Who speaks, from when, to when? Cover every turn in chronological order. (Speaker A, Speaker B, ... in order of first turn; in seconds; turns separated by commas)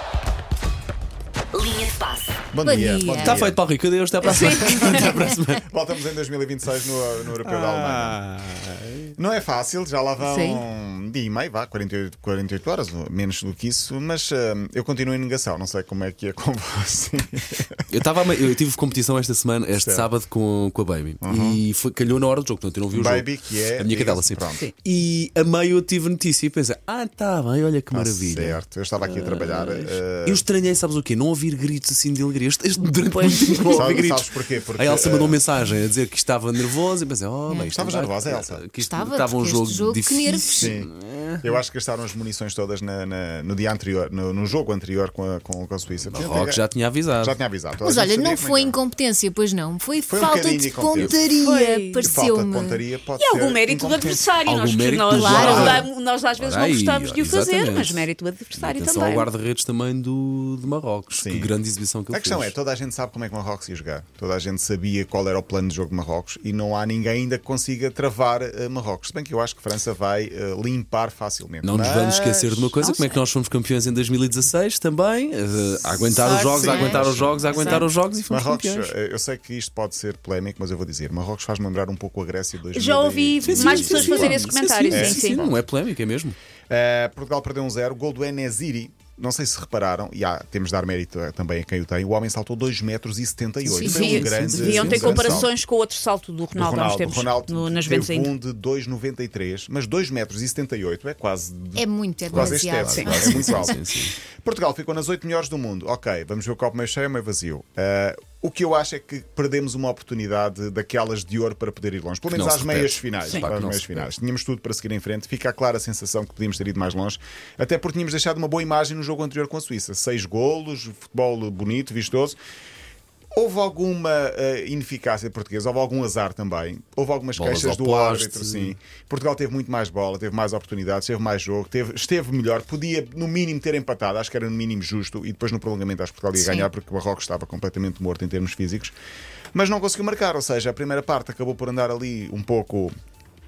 Speaker A: 2.5-3.6, Speaker B: 2.6-3.4, Speaker C: 3.2-5.6, Speaker A: 4.2-8.2, Speaker D: 4.2-5.0, Speaker C: 7.4-9.1, Speaker A: 9.2-17.9, Speaker D: 10.2-10.6, Speaker C: 17.9-41.5, Speaker A: 19.8-20.1, Speaker A: 21.2-21.6, Speaker A: 22.9-24.6, Speaker D: 24.5-24.7, Speaker A: 27.9-30.4, Speaker D: 33.0-33.9, Speaker A: 33.7-35.4, Speaker A: 37.7-38.6, Speaker B: 38.8-40.7, Speaker A: 40.5-40.9, Speaker A: 41.4-46.6, Speaker C: 46.0-47.4, Speaker A: 47.2-48.8, Speaker B: 47.8-52.8, Speaker A: 50.1-51.2, Speaker C: 51.0-51.2, Speaker D: 51.4-52.1, Speaker A: 52.0-54.3, Speaker D: 53.1-59.3, Speaker C: 54.4-62.5, Speaker B: 55.1-55.9, Speaker A: 55.3-55.9, Speaker A: 61.1-61.5, Speaker A: 62.1-72.8, Speaker C: 71.6-78.9, Speaker D: 72.8-73.2, Speaker A: 76.1-85.6, Speaker D: 76.4-77.9, Speaker D: 82.7-85.4, Speaker C: 83.4-86.3, Speaker A: 86.7-95.5, Speaker B: 93.6-95.5, Speaker D: 93.8-98.3, Speaker C: 94.6-95.0, Speaker A: 96.5-103.8, Speaker B: 101.7-103.7, Speaker C: 102.3-104.1, Speaker D: 103.0-103.5, Speaker A: 104.4-122.4, Speaker C: 112.3-114.1, Speaker A: 123.3-138.9, Speaker C: 127.3-128.7, Speaker B: 136.3-136.7, Speaker A: 139.5-142.9